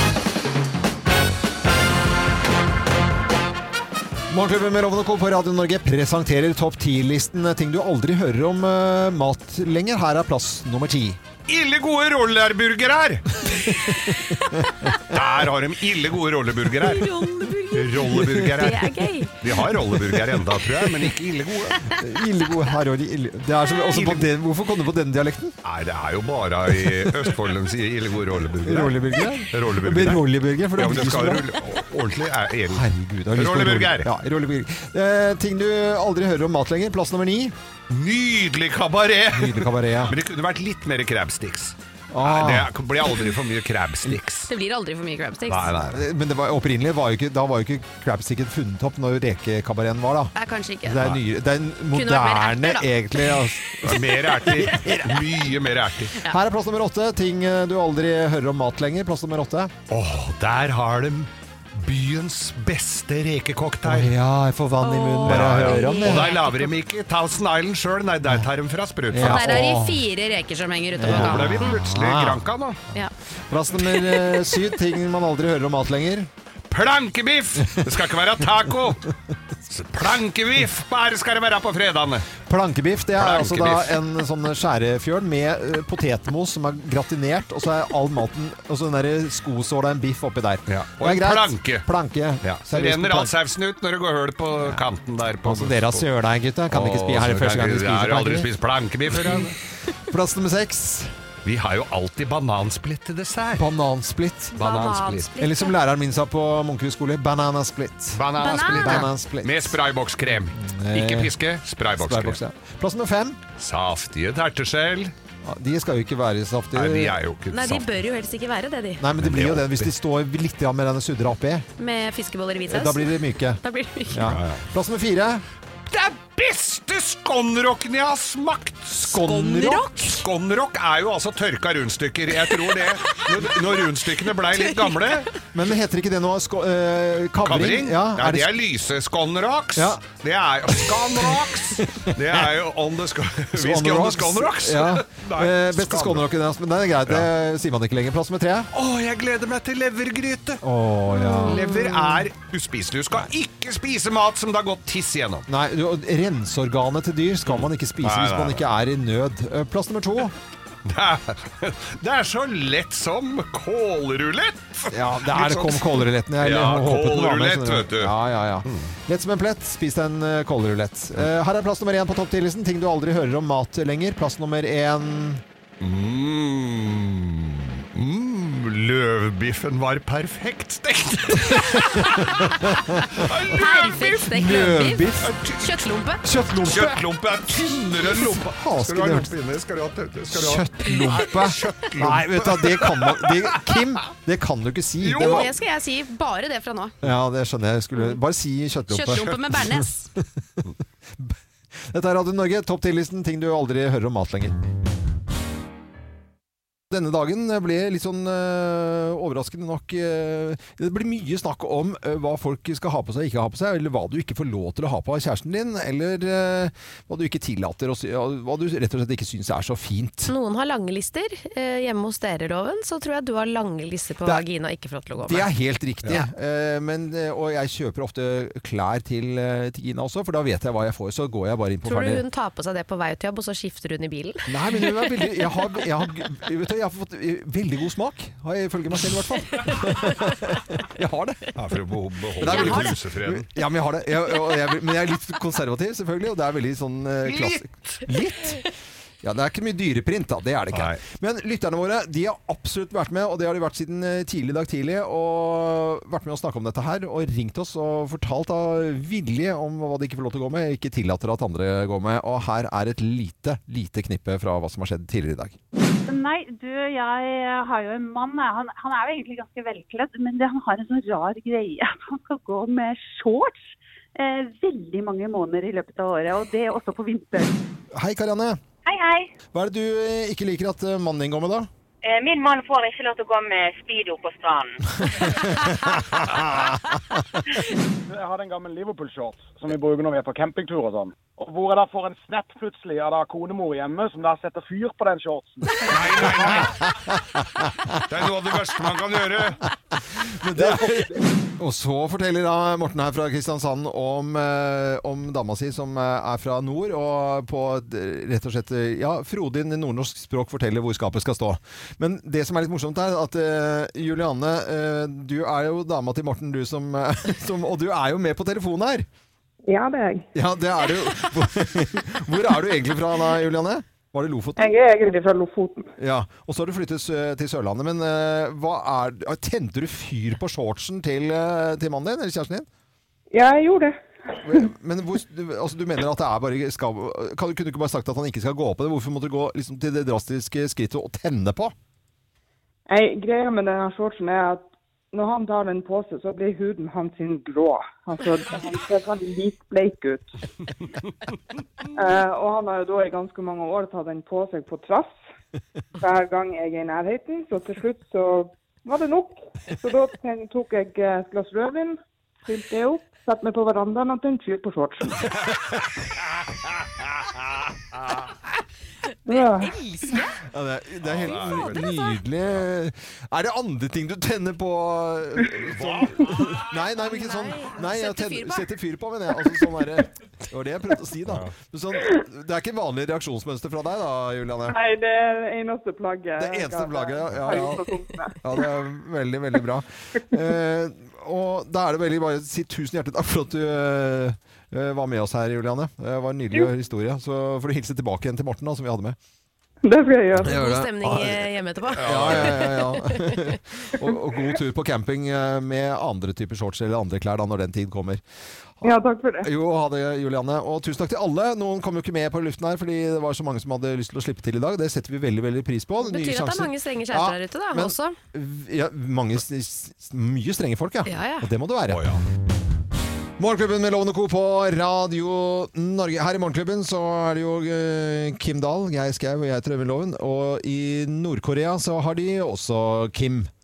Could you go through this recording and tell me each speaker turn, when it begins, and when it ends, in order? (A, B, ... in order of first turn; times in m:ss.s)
0:04.3-0:11.2 A
0:11.5-0:13.3 B
0:13.6-0:14.9 A
0:13.9-0:15.0 C
0:15.1-0:17.1 B
0:16.8-0:19.4 C
0:17.7-0:21.9 B
0:18.0-0:18.5 A
0:21.9-0:25.6 A
0:23.9-0:24.2 B
0:25.6-0:30.2 B
0:26.9-0:27.3 A
0:28.6-0:31.5 A
0:30.8-0:34.1 B
0:32.7-0:37.5 A
0:37.9-0:44.5 B
0:39.3-0:40.2 A
0:42.1-0:42.7 A
0:44.5-0:45.8 C
0:45.5-0:46.0 B
0:45.8-0:50.3 A
0:50.3-0:51.1 C
0:50.8-0:55.3 A
0:51.9-0:54.8 C
0:53.8-0:56.1 B
0:56.2-0:59.7 A
0:59.9-1:04.1 B
1:03.8-1:06.3 A
1:04.8-1:06.7 C
1:05.2-1:09.6 B
1:09.1-1:10.0 A
1:09.2-1:11.8 C
1:11.0-1:12.4 A
1:11.0-1:12.8 B
1:13.5-1:16.3 A
1:16.7-1:19.1 B
1:19.7-1:22.3 B
1:22.4-1:33.3 A
1:23.2-1:24.0 B
1:30.7-1:31.9 B
1:32.4-1:36.0 B
1:35.4-1:38.5 A
1:36.7-1:39.5 B
1:39.1-1:39.5 A
1:40.1-1:41.1 A
1:41.4-1:43.6 B
1:43.6-1:44.6 A
1:44.5-1:45.8 C
1:44.6-1:45.3 B
1:45.4-1:49.8 A
1:48.1-1:52.4 B
1:48.4-1:49.1 C
1:50.5-1:51.3 A
1:52.0-1:53.4 A
1:53.6-1:55.1 B
1:55.4-1:57.2 A
1:56.7-1:57.9 B
1:57.5-1:59.0 C
1:59.0-2:01.7 A
1:59.2-1:59.9 B
2:01.8-2:04.2 C
2:02.7-2:05.4 A
2:04.2-2:04.6 B
2:05.9-2:09.2 B
2:09.0-2:10.0 A
2:09.1-2:10.2 C
2:10.2-2:15.4 B
2:14.5-2:15.1 C
2:15.5-2:18.5 A
2:17.4-2:26.2 B
2:19.8-2:20.0 A
2:20.9-2:22.5 A
2:23.6-2:28.7 A
2:28.7-2:30.6 B
2:30.6-2:31.6 A
2:31.1-2:32.2 C
2:31.5-2:35.4 B
2:35.5-2:40.3 A
2:37.5-2:38.6 B
2:40.8-2:48.1 B
2:44.9-2:55.4 A
2:48.6-2:48.9 B
2:55.8-3:04.3 B
3:01.5-3:03.2 A
3:03.5-3:05.0 C
3:04.3-3:05.3 A
3:05.2-3:05.8 B
3:05.6-3:06.2 C
3:06.2-3:07.0 A
3:06.6-3:13.8 B
3:08.1-3:09.3 A
3:10.3-3:15.5 A
3:15.0-3:15.5 B
3:15.2-3:17.0 C
3:17.0-3:20.2 A
3:18.9-3:20.1 C
3:21.2-3:24.6 A
3:26.9-3:40.3 A
3:40.3-3:45.5 C
3:45.2-3:52.2 A
3:51.8-3:55.8 C
3:54.5-4:01.5 A
3:59.7-4:00.4 C
4:01.5-4:03.5 B
4:02.4-4:08.6 A
4:02.4-4:03.0 C
4:07.2-4:08.0 B
4:09.2-4:25.6 A
4:10.7-4:11.0 B
4:26.0-4:37.5 D
4:37.9-4:38.6 A
4:38.8-4:39.3 E
4:39.5-4:41.7 A
4:42.0-4:45.2 E
4:45.2-4:47.4 A
4:48.1-4:56.7 F
4:55.8-4:56.8 B
4:56.2-4:57.9 A
4:57.9-4:59.6 B
5:00.1-5:19.1 A
5:19.7-5:20.3 G
5:20.3-5:24.7 A
5:24.6-5:25.9 G
5:26.0-5:32.7 A
5:33.3-5:34.6 G
5:34.4-5:41.7 A
5:42.9-5:50.4 G
5:51.9-5:55.2 G
5:56.0-6:05.3 G
6:09.3-6:09.7 G
6:09.3-6:10.4 C
6:10.4-6:24.8 A
6:11.0-6:11.9 B
6:11.4-6:12.0 C
6:15.6-6:16.6 B
6:17.0-6:18.7 C
6:24.7-6:28.4 G
6:26.4-6:27.9 A
6:28.4-6:39.2 A
6:39.8-6:40.6 G
6:40.4-6:48.2 A
6:40.4-6:43.6 C
6:42.0-6:42.6 B
6:48.8-6:49.5 G
6:49.4-7:02.0 A
6:56.0-6:58.2 C
7:01.0-7:01.5 C
7:01.9-7:02.2 B
7:03.4-7:13.5 A